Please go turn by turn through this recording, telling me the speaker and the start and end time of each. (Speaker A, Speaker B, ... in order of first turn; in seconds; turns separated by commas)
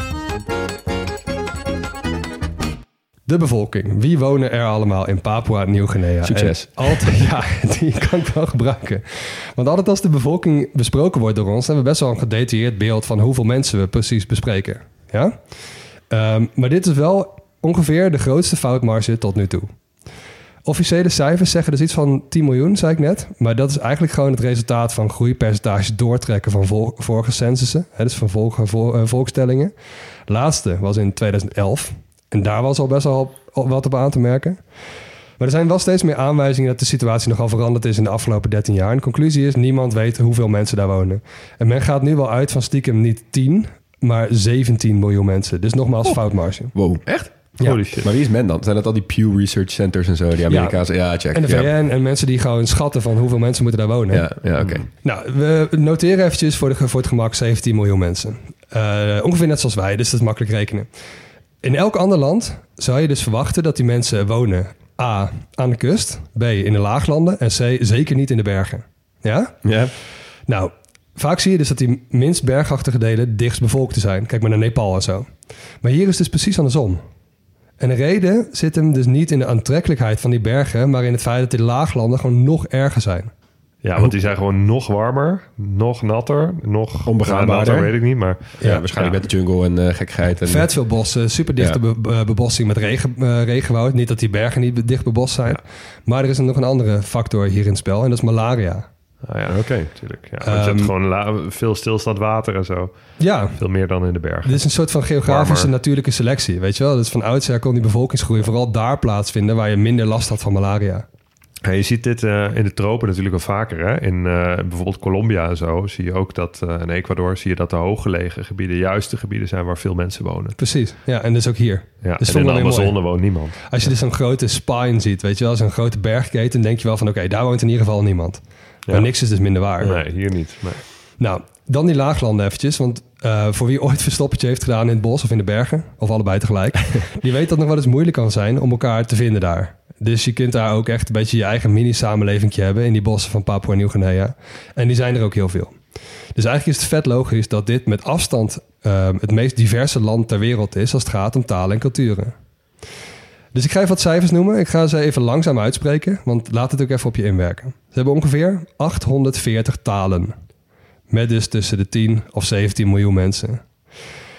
Speaker A: 3.3-15.4, Speaker B: 6.2-7.0, Speaker A: 16.1-19.7, Speaker A: 20.6-29.7, Speaker A: 30.3-34.6, Speaker A: 35.4-46.7, Speaker B: 46.7-51.7, Speaker C: 47.6-48.1, Speaker A: 51.3-54.3, Speaker B: 54.1-54.9, Speaker A: 55.0-60.9, Speaker A: 61.6-69.5, Speaker B: 69.6-69.9, Speaker A: 70.5-75.3, Speaker A: 75.8-77.0, Speaker A: 77.8-83.3, Speaker C: 83.8-89.2, Speaker B: 87.0-87.9, Speaker B: 88.6-90.7, Speaker A: 90.5-98.9, Speaker C: 99.2-102.9, Speaker B: 99.5-99.9, Speaker A: 100.4-100.9, Speaker A: 103.2-103.6, Speaker C: 103.5-104.7, Speaker A: 104.4-111.0, Speaker C: 105.2-105.7, Speaker C: 111.6-120.6, Speaker A: 120.6-123.0, Speaker C: 122.0-123.7, Speaker A: 123.7-130.0, Speaker C: 129.8-130.8, Speaker A: 131.2-145.8, Speaker A: 146.3-152.3, Speaker A: 153.5-160.3, Speaker A: 161.1-163.6